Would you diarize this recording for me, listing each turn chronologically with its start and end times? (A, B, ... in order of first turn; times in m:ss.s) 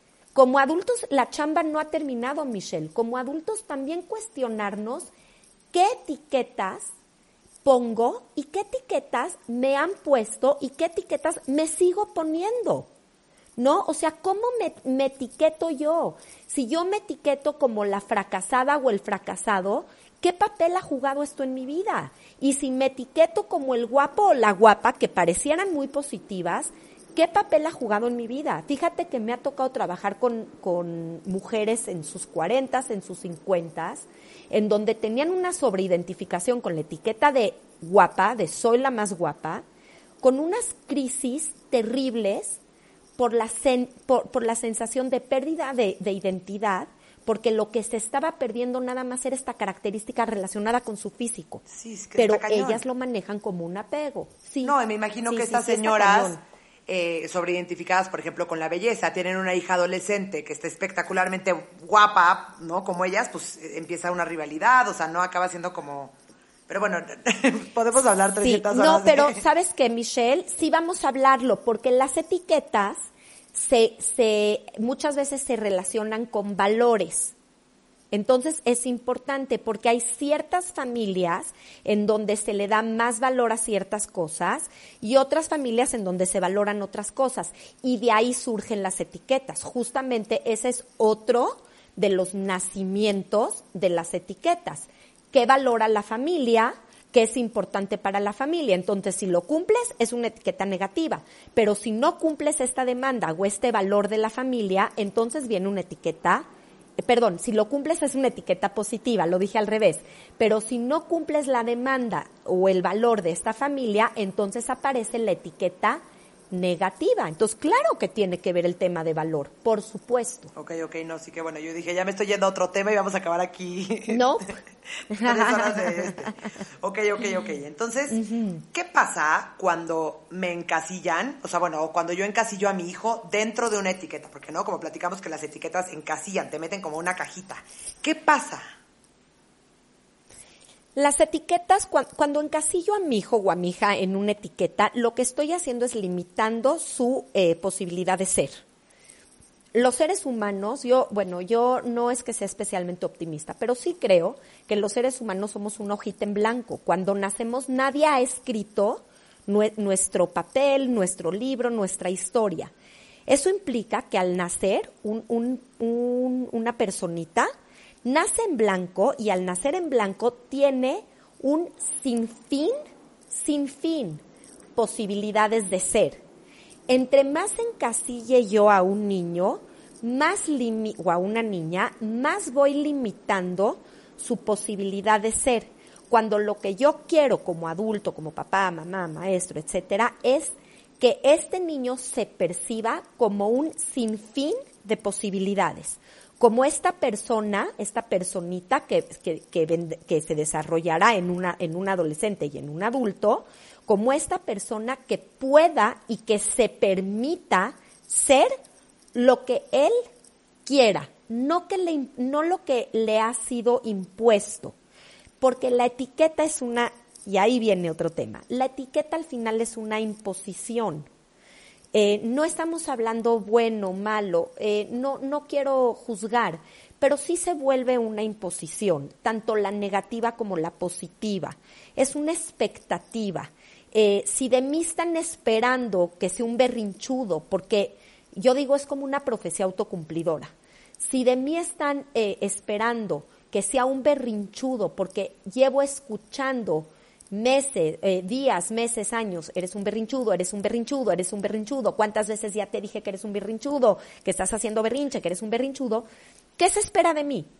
0:00.3-0:05.1 A
0:05.7-0:06.9 A
0:07.6-0:12.9 A
0:13.6-0:39.6 A
0:40.2-0:42.6 A
0:43.2-0:51.6 A
0:51.7-0:52.8 B
0:52.2-0:54.7 A
0:54.6-0:56.4 B
0:55.3-0:56.4 A
0:56.9-1:06.1 B
1:06.7-1:09.4 B
1:08.4-1:17.3 A
1:18.1-1:46.4 A
1:47.0-2:00.5 A
2:00.5-2:04.5 B
2:04.1-2:04.5 A
2:05.1-2:06.3 A
2:05.1-2:08.2 B
2:08.1-2:08.6 A
2:08.7-2:18.6 B
2:21.0-2:28.6 A
2:29.7-2:42.7 A
2:43.3-2:47.5 A
2:48.0-2:52.8 A
2:53.3-2:54.2 A
2:54.8-2:56.2 A
2:56.9-3:28.6 A
3:29.1-3:30.0 A
3:30.6-3:34.7 A
3:35.4-3:41.1 A
3:41.9-4:16.1 A
4:16.6-4:17.5 A